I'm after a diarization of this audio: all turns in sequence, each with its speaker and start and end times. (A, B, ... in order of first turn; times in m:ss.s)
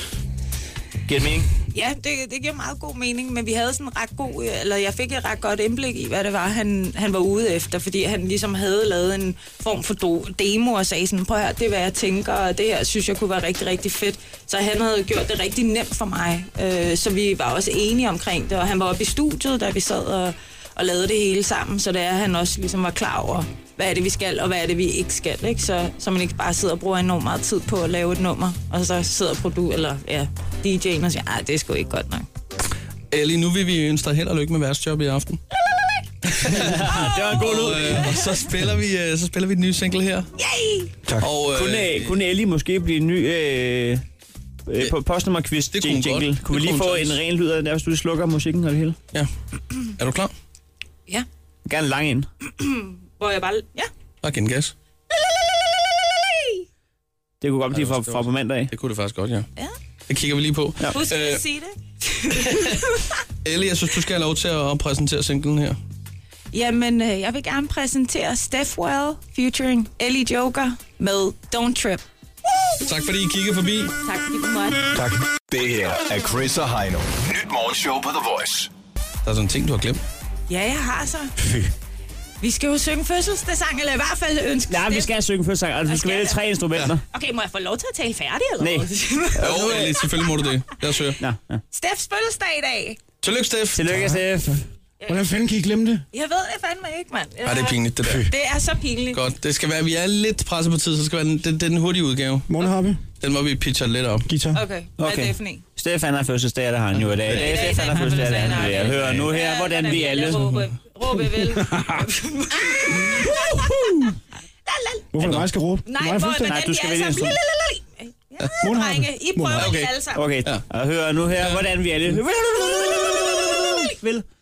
0:01.1-0:01.5 A
0:01.7-0:32.2 B
0:33.1-0:35.4 C
0:36.2-0:40.3 C
0:36.4-0:38.1 A
0:40.4-0:40.9 B
0:41.2-0:42.2 C
0:41.5-0:44.0 A
0:44.7-0:49.0 A
0:45.7-0:47.2 C
0:50.0-0:50.3 C
0:51.6-0:52.3 A
0:52.6-0:53.9 B
0:54.2-0:54.7 C
0:55.1-0:56.6 B
0:57.4-0:58.7 A
0:57.7-0:59.5 C
1:00.1-1:01.4 C
1:00.9-1:03.2 B
1:02.3-1:02.8 C
1:03.4-1:05.8 C
1:06.5-1:12.0 B
1:12.8-1:13.9 C
1:14.0-1:14.8 B
1:14.9-1:15.2 D
1:15.5-1:18.7 E
1:19.2-1:20.0 C
1:20.5-1:21.3 B
1:21.4-1:21.7 D
1:22.4-1:25.1 B
1:24.7-1:27.0 A
1:25.8-1:26.4 B
1:27.1-1:30.2 B
1:28.6-1:29.9 A
1:29.4-1:31.2 C
1:31.2-1:31.6 A
1:31.7-1:33.0 B
1:33.2-1:34.1 C
1:33.8-1:34.6 A
1:33.9-1:34.5 D
1:35.1-1:36.0 D
1:36.1-1:39.2 B
1:37.4-1:38.3 C
1:39.1-1:44.3 C
1:42.5-1:43.0 D
1:44.2-1:44.6 D
1:44.5-1:45.6 B
1:45.0-1:50.5 A
1:47.3-1:53.8 B
1:51.5-1:52.0 D
1:52.9-1:54.1 D
1:54.7-1:55.2 B
1:55.1-1:56.6 D
1:55.2-1:55.4 C
1:55.8-2:00.2 B
1:56.3-1:57.4 A
1:58.6-1:59.8 D
1:59.5-2:00.6 C
2:00.1-2:04.2 A
2:01.4-2:01.6 C